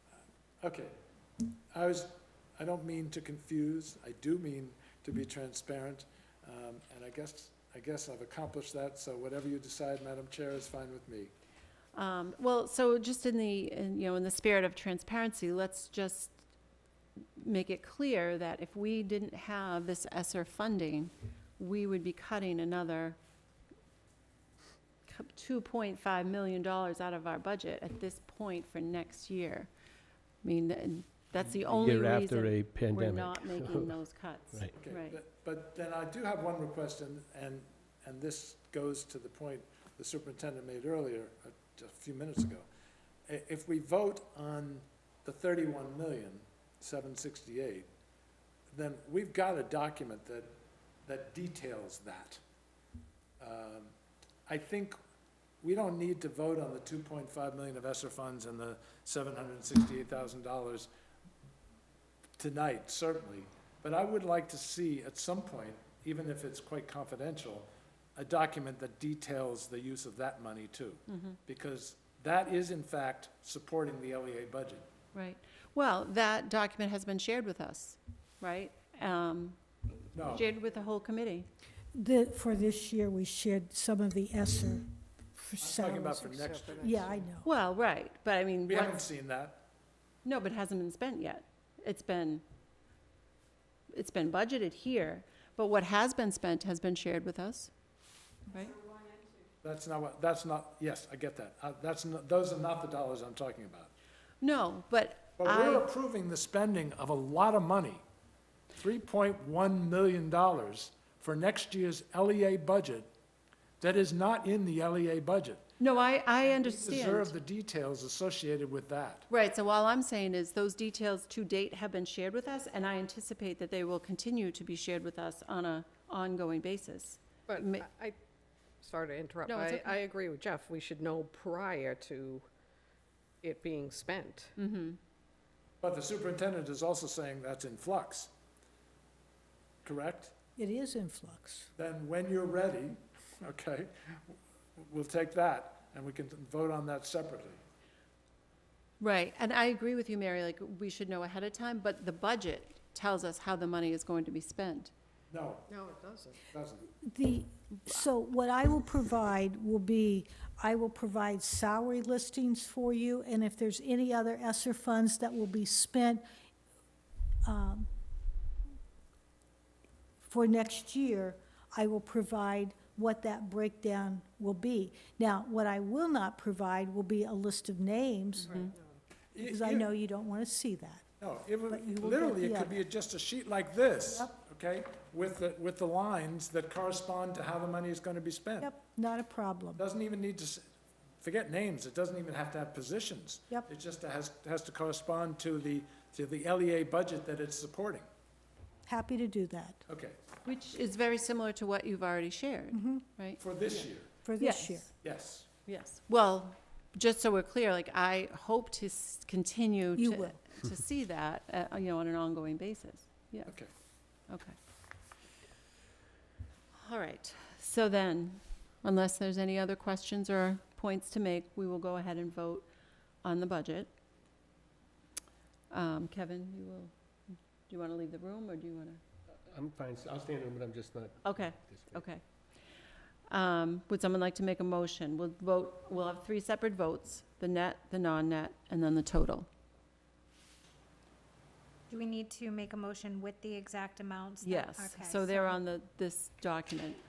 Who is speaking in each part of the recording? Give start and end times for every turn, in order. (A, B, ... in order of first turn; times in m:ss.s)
0:00.6-0:00.9 A
0:01.7-0:11.3 A
0:12.0-0:16.4 B
0:17.4-0:23.2 B
0:25.1-0:29.7 B
0:30.4-0:35.2 B
0:31.5-0:34.7 C
0:34.8-0:42.7 A
0:43.3-0:47.9 A
0:48.7-0:50.5 A
0:51.1-0:52.4 A
0:53.4-0:53.9 A
0:54.5-0:55.0 A
0:55.6-1:00.9 A
1:02.4-1:14.9 A
1:11.1-1:11.4 B
1:15.1-1:19.6 B
1:20.1-1:20.5 A
1:20.2-1:21.5 B
1:21.9-1:24.8 D
1:25.4-1:27.5 D
1:25.6-1:27.1 A
1:26.4-1:27.2 E
1:27.4-1:29.0 B
1:28.7-1:29.6 A
1:30.2-1:32.4 B
1:33.9-1:37.7 B
1:38.5-1:38.8 B
1:39.6-1:43.9 A
1:44.4-1:45.9 B
1:45.4-1:48.0 A
1:48.8-1:53.1 A
1:53.8-1:55.6 A
1:55.8-1:57.3 B
1:56.7-1:59.3 A
1:59.3-2:07.9 B
2:07.5-2:08.2 E
2:08.8-2:12.5 E
2:09.5-2:10.0 B
2:13.4-2:14.5 E
2:14.6-2:15.0 B
2:15.8-2:18.3 A
2:19.8-2:20.3 A
2:20.6-2:21.7 D
2:21.8-2:27.6 A
2:29.0-2:34.9 B
2:35.3-2:35.7 A
2:35.7-2:36.4 E
2:36.5-2:36.9 A
2:37.0-2:46.2 D
2:47.4-2:47.9 D
2:50.2-2:58.7 D
2:59.3-2:59.8 A
2:59.4-3:01.1 D
3:01.2-3:08.7 A
3:01.7-3:02.8 D
3:04.1-3:04.3 D
3:08.6-3:09.8 D
3:09.8-3:10.7 A
3:11.2-3:18.1 A
3:18.9-3:19.8 D
3:19.9-3:20.2 A
3:20.4-3:23.8 B
3:22.7-3:23.1 D
3:23.4-3:24.1 A
3:24.2-3:24.9 D
3:24.4-3:24.9 B
3:25.0-3:25.5 A
3:25.7-3:33.5 B
3:30.0-3:30.4 D
3:34.3-3:34.6 B
3:36.7-3:42.7 B
3:43.2-3:43.9 B
3:45.7-3:46.9 B
3:47.7-3:49.0 B
3:49.4-3:52.0 C
3:51.2-3:52.2 B
3:53.3-3:59.5 B
4:01.9-4:05.6 F
4:04.4-4:07.0 B